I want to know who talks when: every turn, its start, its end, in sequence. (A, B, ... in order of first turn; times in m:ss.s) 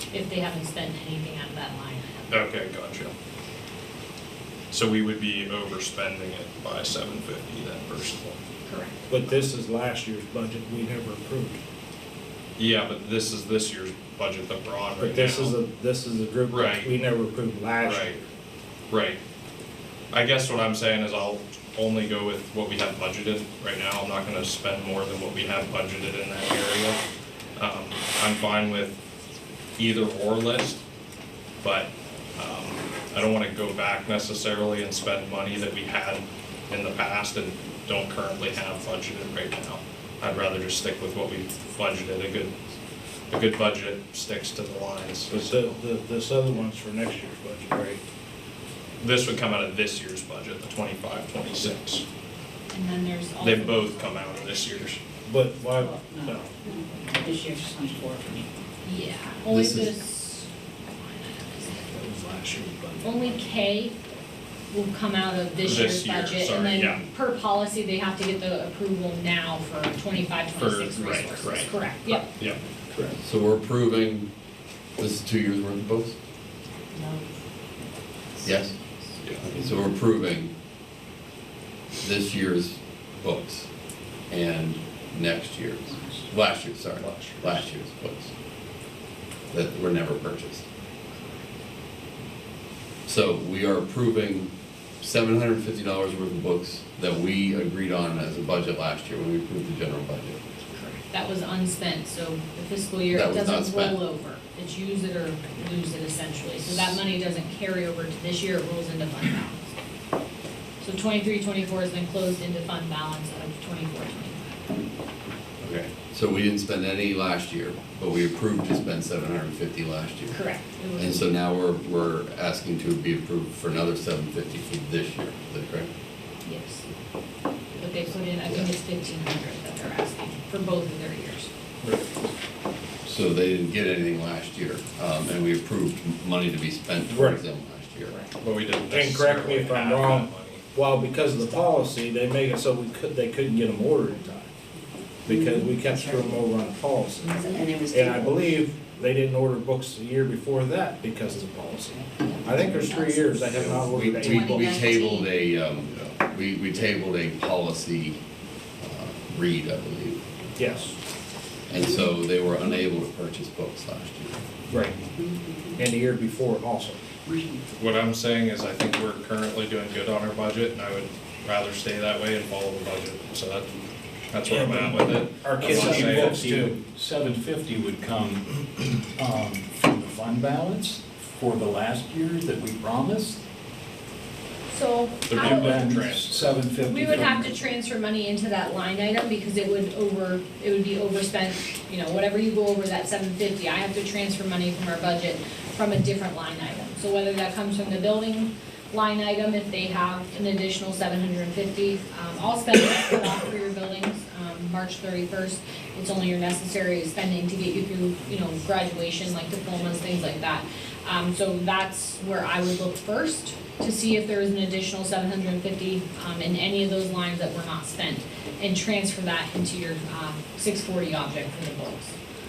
0:00.1-0:02.4 A
0:02.3-0:03.1 B
0:04.7-0:08.4 B
0:08.7-0:09.1 A
0:09.1-0:11.6 C
0:12.6-0:15.6 B
0:15.0-0:18.2 C
0:16.5-0:17.0 B
0:17.8-0:18.2 B
0:18.9-0:19.2 B
0:20.1-0:27.0 B
0:27.6-0:29.0 B
0:29.8-0:30.8 B
0:31.6-0:42.6 B
0:43.3-0:45.8 B
0:45.3-0:48.0 C
0:49.0-0:52.0 B
0:52.7-0:54.6 A
0:53.4-0:55.0 B
0:55.3-0:56.6 C
0:55.7-0:58.5 D
0:58.8-1:01.9 A
0:59.5-1:00.0 E
1:01.9-1:03.5 F
1:03.0-1:04.0 A
1:04.7-1:12.3 A
1:05.6-1:07.0 B
1:10.6-1:12.6 B
1:13.2-1:14.3 E
1:15.0-1:16.2 E
1:18.4-1:20.5 E
1:22.0-1:23.7 E
1:24.3-1:28.3 E
1:25.9-1:26.2 D
1:27.0-1:27.7 B
1:29.5-1:30.6 E
1:33.1-1:40.4 E
1:40.7-1:49.7 A
1:43.1-1:44.0 E
1:50.8-1:54.8 A
1:55.6-2:05.9 E
2:00.3-2:01.4 A
2:06.4-2:06.8 A
2:07.8-2:11.5 A
2:13.0-2:18.2 E
2:17.1-2:17.4 C
2:18.4-2:20.6 B
2:18.9-2:24.5 C
2:25.2-2:35.0 C
2:25.3-2:26.4 D
2:27.4-2:27.9 D
2:32.2-2:33.4 D
2:33.5-2:38.2 E
2:34.2-2:35.3 D
2:38.8-2:40.2 E
2:40.6-2:40.9 C
2:41.7-2:44.4 E
2:44.7-2:45.0 C
2:45.2-2:45.9 D
2:45.8-2:47.0 C
2:47.2-2:47.6 D
2:47.8-2:53.7 B
2:54.3-2:56.4 B
2:54.5-2:56.8 C
2:55.6-3:03.4 F
3:04.7-3:05.8 A
3:05.3-3:06.6 B
3:05.3-3:07.7 F
3:06.8-3:42.2 A